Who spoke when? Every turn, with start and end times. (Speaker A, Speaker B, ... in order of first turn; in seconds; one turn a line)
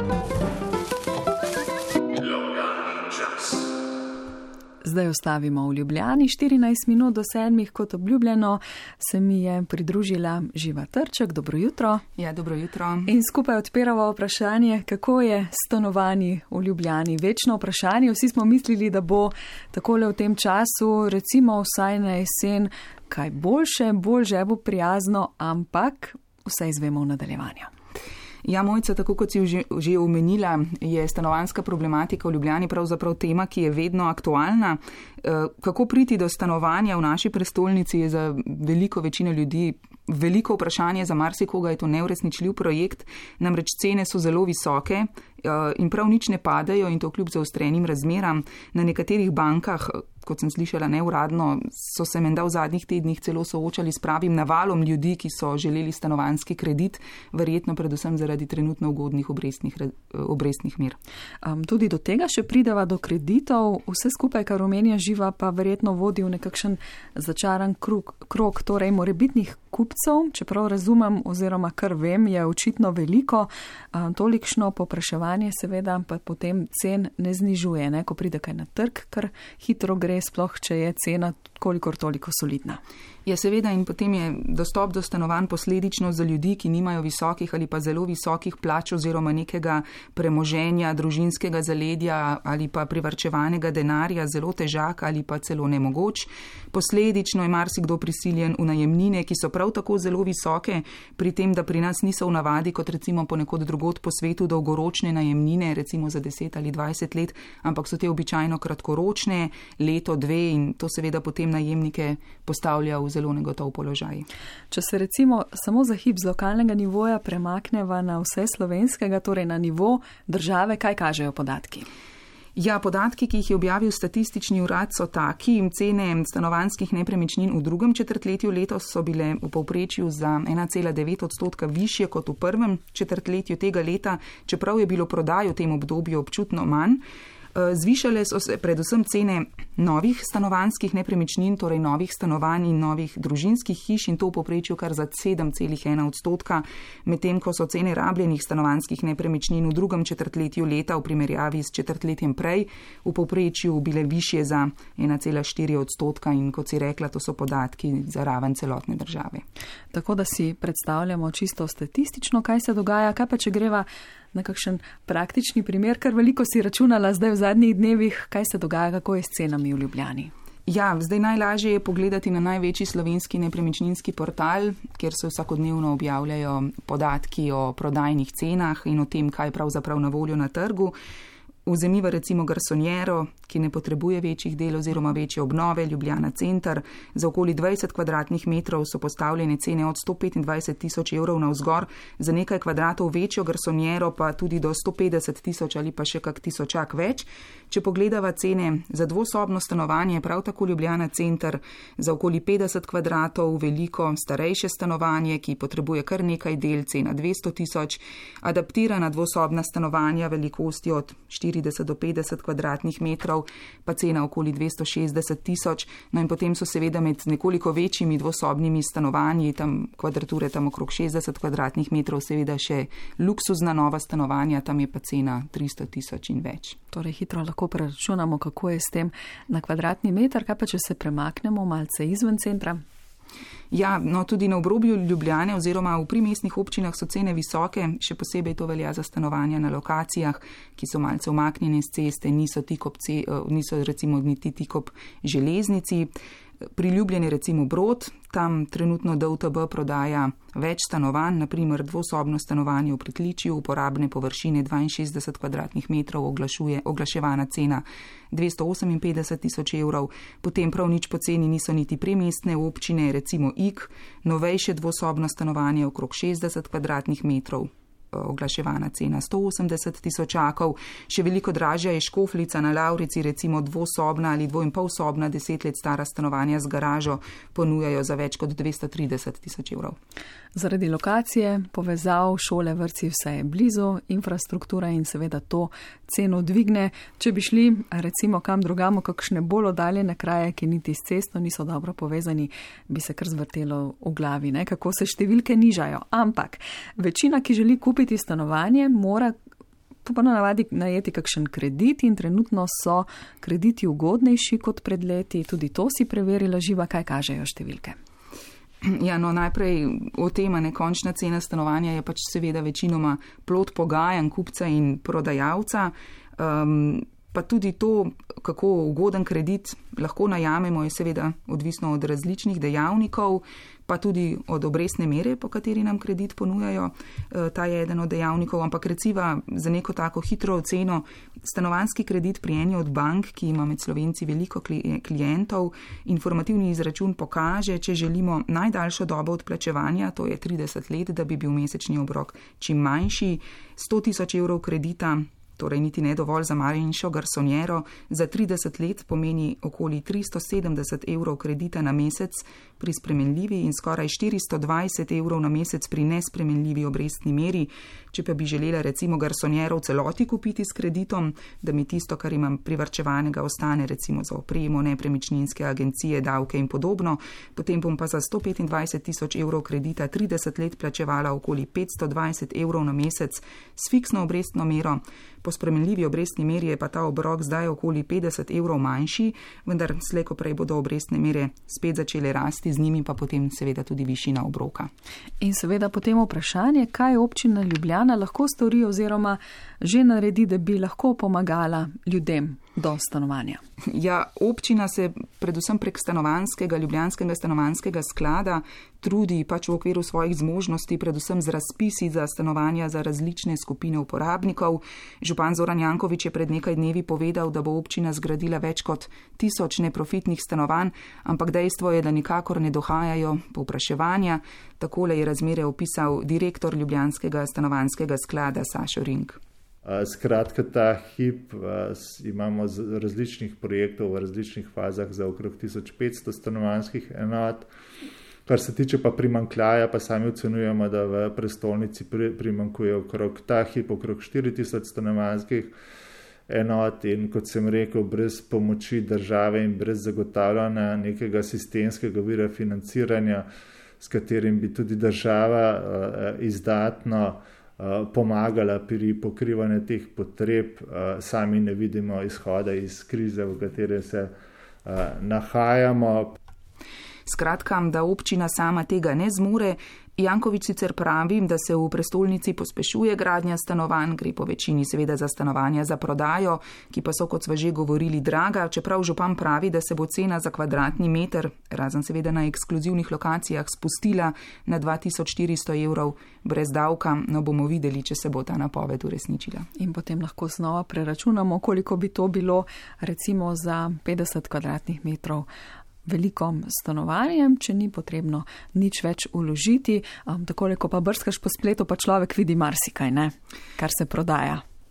Speaker A: 4.8-12.0
Speaker B: 12.2-13.1
Speaker A: 13.1-27.7
Speaker B: 28.4-61.0
Speaker A: 61.4-82.8
Speaker B: 83.2-114.3
Speaker A: 114.7-121.9
Speaker B: 122.5-137.0
Speaker B: 137.5-159.4
Speaker A: 159.9-170.3
Speaker B: 170.7-180.9
Speaker B: 181.7-226.8
Speaker A: 226.9-232.8
Speaker B: 233.7-246.1
Speaker B: 246.7-279.9
Speaker A: 280.5-299.3
Speaker A: 300.0-307.9
Speaker B: 308.8-384.9
Speaker A: 385.4-393.6
Speaker B: 393.9-419.4
Speaker C: 419.9-427.7
Speaker C: 428.4-435.7
Speaker C: 436.5-443.4
Speaker C: 444.0-454.3
Speaker C: 454.8-456.3
Speaker B: 457.3-479.7
Speaker A: 479.8-485.5
Speaker A: 486.0-494.6